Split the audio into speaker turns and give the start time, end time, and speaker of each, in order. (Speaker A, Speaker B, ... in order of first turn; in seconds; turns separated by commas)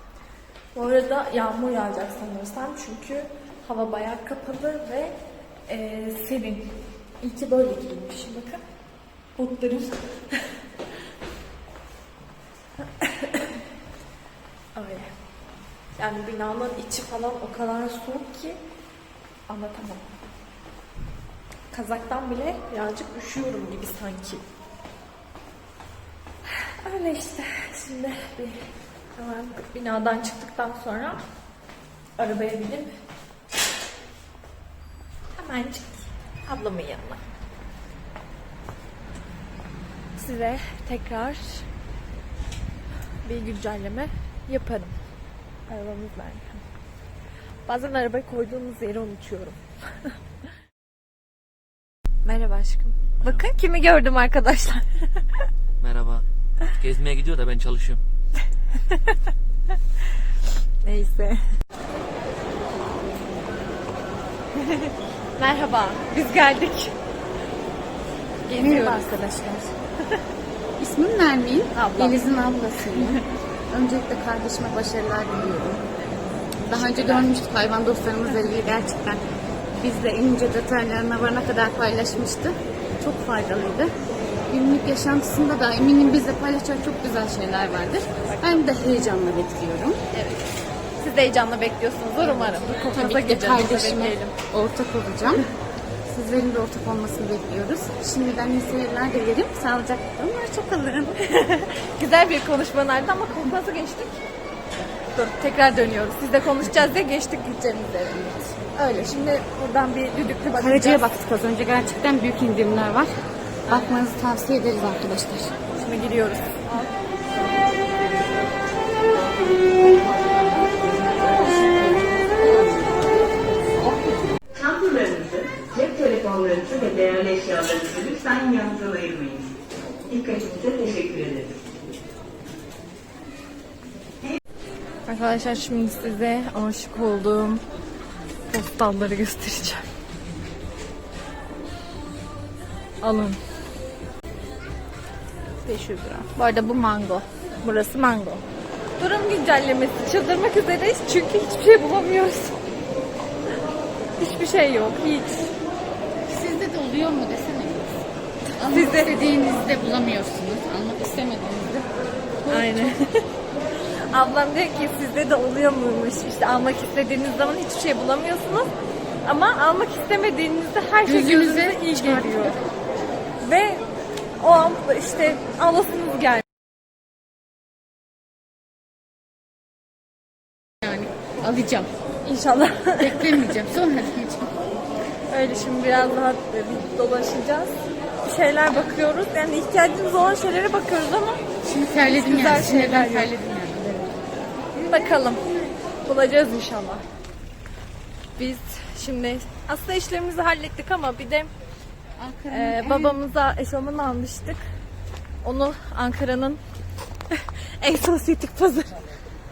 Speaker A: 0.8-8.6, Speaker A: 9.4-10.5, Speaker A: 13.0-13.6, Speaker A: 14.8-15.1, Speaker A: 16.0-18.6, Speaker A: 19.5-20.2, Speaker A: 21.7-24.4, Speaker A: 26.8-31.2, Speaker A: 32.2-32.9, Speaker A: 35.4-37.2, Speaker A: 40.2-41.7, Speaker A: 43.2-45.0, Speaker A: 45.7-46.6, Speaker A: 47.7-50.1, Speaker A: 52.2-55.5, Speaker B: 53.2-53.5, Speaker B: 55.8-58.0, Speaker A: 60.8-61.4, Speaker A: 64.6-67.0, Speaker A: 68.5-69.5, Speaker C: 68.6-69.7, Speaker C: 70.8-75.8, Speaker A: 71.7-73.2, Speaker A: 76.7-77.3, Speaker C: 76.7-79.2, Speaker C: 79.8-83.9, Speaker C: 84.5-90.0, Speaker A: 88.2-88.7, Speaker A: 90.1-90.5, Speaker A: 91.0-94.3, Speaker C: 92.2-95.5, Speaker C: 96.1-101.2, Speaker A: 101.2-104.2, Speaker A: 105.2-111.0, Speaker C: 110.5-113.1, Speaker C: 113.7-115.5, Speaker A: 115.8-116.9, Speaker C: 121.2-122.1, Speaker D: 124.5-129.6, Speaker D: 130.1-131.6, Speaker A: 135.1-137.6, Speaker A: 138.5-139.9, Speaker A: 143.0-143.4, Speaker A: 145.7-148.4, Speaker A: 149.0-152.6, Speaker A: 154.2-155.5, Speaker C: 156.3-158.0, Speaker A: 158.6-159.2, Speaker C: 158.6-161.9, Speaker C: 162.4-162.9, Speaker A: 162.5-163.3, Speaker A: 164.1-168.7, Speaker A: 169.2-172.6, Speaker C: 171.1-172.5, Speaker A: 173.4-173.8, Speaker A: 174.4-176.4, Speaker C: 180.8-181.9, Speaker A: 182.2-183.5, Speaker C: 183.0-184.5, Speaker A: 185.3-191.4, Speaker C: 191.7-194.1, Speaker A: 192.1-193.3, Speaker A: 194.9-195.4, Speaker A: 196.0-197.0, Speaker A: 198.4-201.5, Speaker C: 202.2-203.2, Speaker A: 202.5-204.6, Speaker A: 205.4-206.6, Speaker A: 207.3-209.0